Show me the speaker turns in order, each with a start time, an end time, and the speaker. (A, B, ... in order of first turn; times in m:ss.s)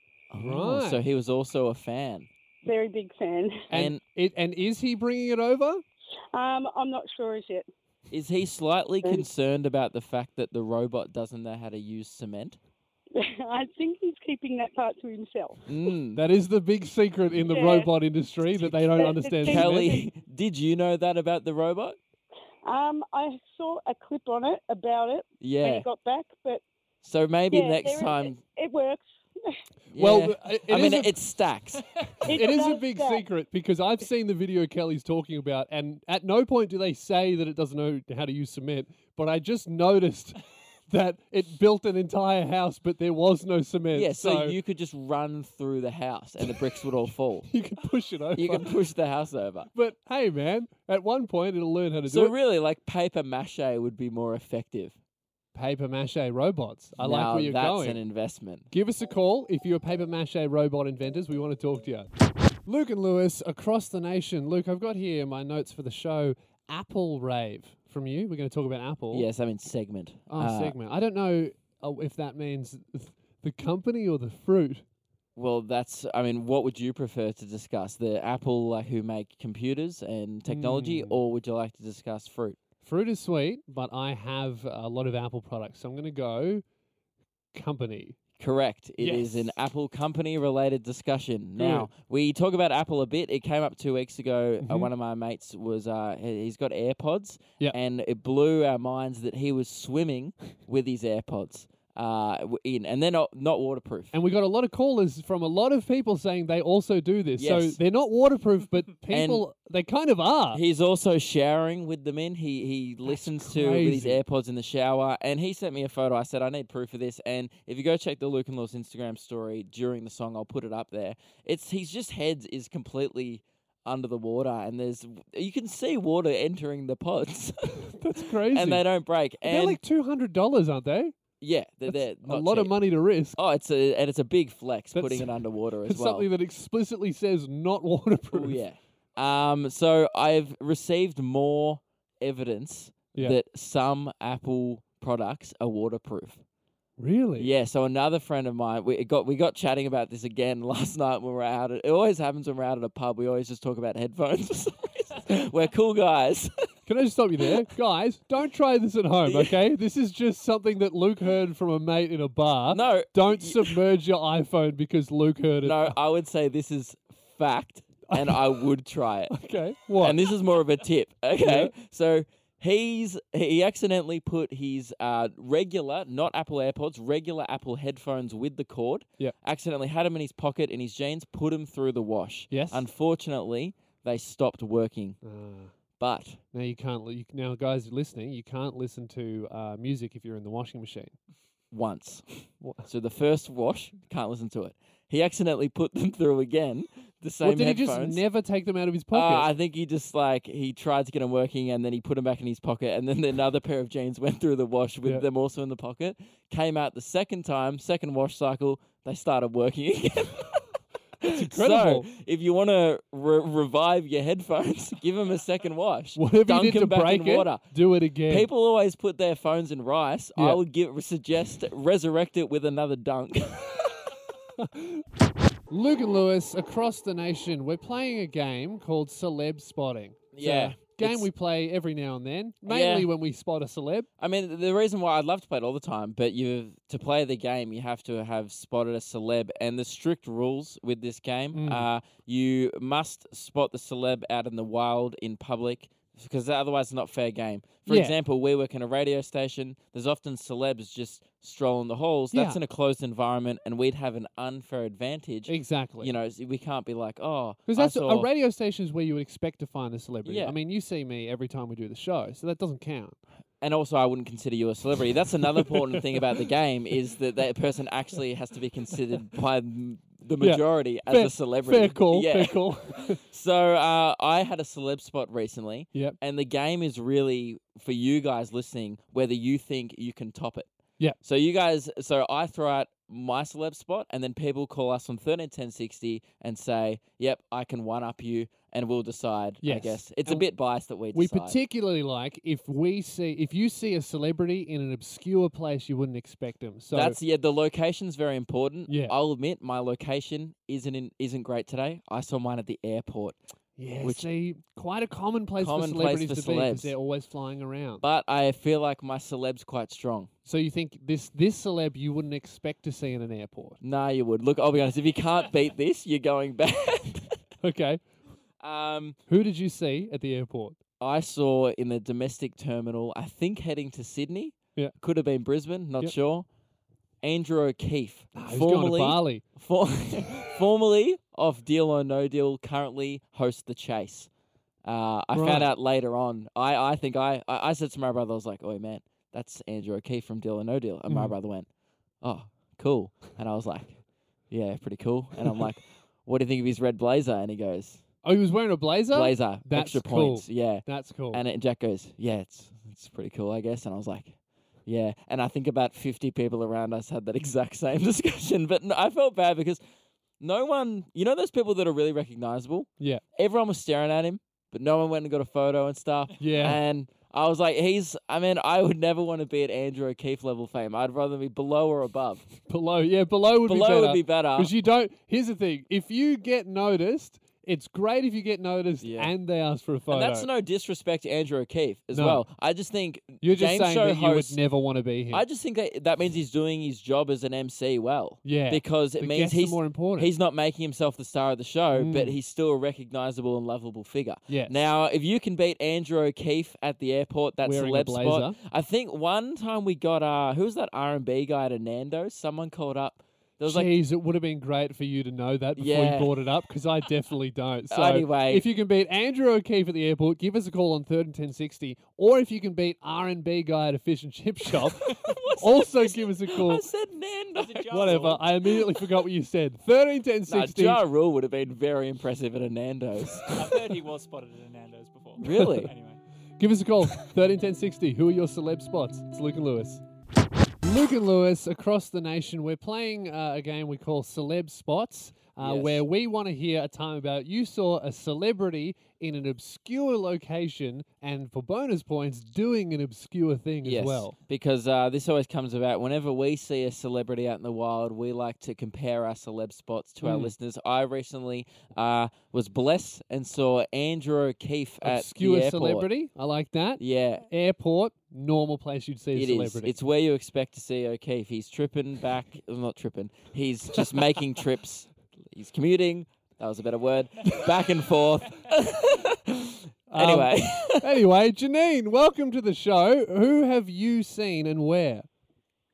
0:00.3-0:02.3 A
0:00.4-0:01.0 B
0:02.6-0:03.7 C
0:03.7-0:04.0 A
0:03.7-0:05.8 B
0:06.3-0:07.7 C
0:08.1-0:12.6 A
0:13.1-0:15.7 C
0:15.7-0:16.2 A
0:16.1-0:19.9 B
0:17.5-0:17.9 C
0:18.6-0:22.0 A
0:18.9-0:20.0 C
0:22.6-0:26.6 C
0:25.4-0:25.9 A
0:27.0-0:28.4 A
0:27.5-0:29.6 C
0:29.9-0:31.8 A
0:30.0-0:31.2 B
0:32.2-0:33.3 C
0:32.2-0:40.3 B
0:40.9-0:44.6 B
0:43.9-0:47.5 A
0:47.5-0:48.7 B
0:48.3-0:49.7 A
0:49.7-0:52.3 B
0:52.0-0:54.9 A
0:55.5-0:58.0 B
0:57.0-0:58.7 A
0:58.7-1:02.1 B
1:02.7-1:09.3 B
1:09.1-1:10.7 A
1:10.3-1:14.8 B
1:15.4-1:22.6 A
1:20.5-1:21.2 B
1:22.8-1:26.6 B
1:27.5-1:28.2 B
1:28.4-1:44.1 A
1:29.0-1:29.5 B
1:31.6-1:31.9 B
1:34.6-1:34.9 B
1:44.1-1:50.6 B
1:47.4-1:47.8 A
1:49.1-1:49.4 A
1:50.5-2:09.8 A
1:53.0-1:54.2 B
2:08.0-2:08.8 B
2:09.4-2:11.1 B
2:11.4-2:12.7 A
2:11.9-2:13.4 B
2:13.4-2:16.3 A
2:14.9-2:18.6 B
2:18.3-2:26.4 A
2:27.0-2:27.5 B
2:27.4-2:36.6 A
2:36.9-2:45.9 B
2:39.2-2:39.5 A
2:42.7-2:43.7 A
2:45.6-2:49.4 A
2:48.1-2:48.6 B
2:49.3-2:50.2 B
2:50.0-3:05.2 A
2:51.4-2:51.7 B
3:02.5-3:02.8 B
3:05.2-3:05.7 B
3:06.0-3:06.4 A
3:06.5-3:11.2 B
3:11.7-3:18.2 A
3:12.6-3:12.8 B
3:17.4-3:19.5 B
3:19.1-3:37.7 A
3:31.2-3:32.1 B
3:36.2-3:38.5 B
3:38.2-3:44.1 A
3:40.4-3:40.6 B
3:44.6-3:45.0 B
3:45.7-3:54.1 B
3:50.3-3:51.3 A
3:52.6-3:53.1 A
3:54.2-4:18.3 A
4:01.5-4:01.8 B
4:07.8-4:08.2 B
4:12.3-4:12.6 B
4:15.5-4:16.1 B
4:17.7-4:23.2 B
4:20.2-4:20.6 A
4:23.6-4:40.7 A
4:25.6-4:26.0 B
4:30.4-4:33.2 B
4:41.2-4:51.6 A
4:49.6-4:50.5 B
4:51.1-4:57.2 B
4:56.9-5:03.4 A
4:58.9-4:59.1 B
5:03.8-5:08.0 B
5:04.0-5:04.3 A
5:05.6-5:06.9 A
5:08.0-5:10.3 A
5:10.4-5:13.8 B
5:13.8-5:17.3 A
5:17.6-5:18.0 B
5:18.6-5:19.2 A
5:19.3-5:20.8 B
5:21.0-5:26.4 A
5:27.2-5:34.3 A
5:28.3-5:29.4 B
5:34.8-5:41.7 A
5:35.3-5:35.7 B
5:41.1-5:41.3 B
5:42.2-5:44.0 A
5:44.5-5:48.0 A
5:48.2-5:51.4 B
5:49.1-5:59.8 A
6:00.4-6:12.4 A
6:06.4-6:06.8 B
6:12.7-6:20.5 B
6:13.6-6:14.7 A
6:19.0-6:19.3 A
6:20.1-6:24.6 A
6:22.1-6:22.4 B
6:23.4-6:25.4 B
6:25.3-6:44.0 A
6:28.4-6:30.3 B
6:31.9-6:32.4 B
6:34.5-6:34.8 B
6:37.6-6:38.6 B
6:43.6-6:56.8 B
6:45.8-6:46.3 A
6:47.9-6:48.6 A
6:55.0-6:58.5 A
6:57.5-6:58.5 D
6:57.9-7:01.0 B
7:00.5-7:03.5 A
7:03.5-7:06.2 D
7:05.4-7:05.9 A
7:05.4-7:05.8 B
7:06.6-7:10.0 B
7:10.8-7:24.3 B
7:15.6-7:16.0 A
7:23.8-7:36.1 A
7:30.2-7:30.5 B
7:35.0-7:39.9 B
7:37.0-7:37.4 A
7:39.3-7:51.2 A
7:50.1-7:55.3 B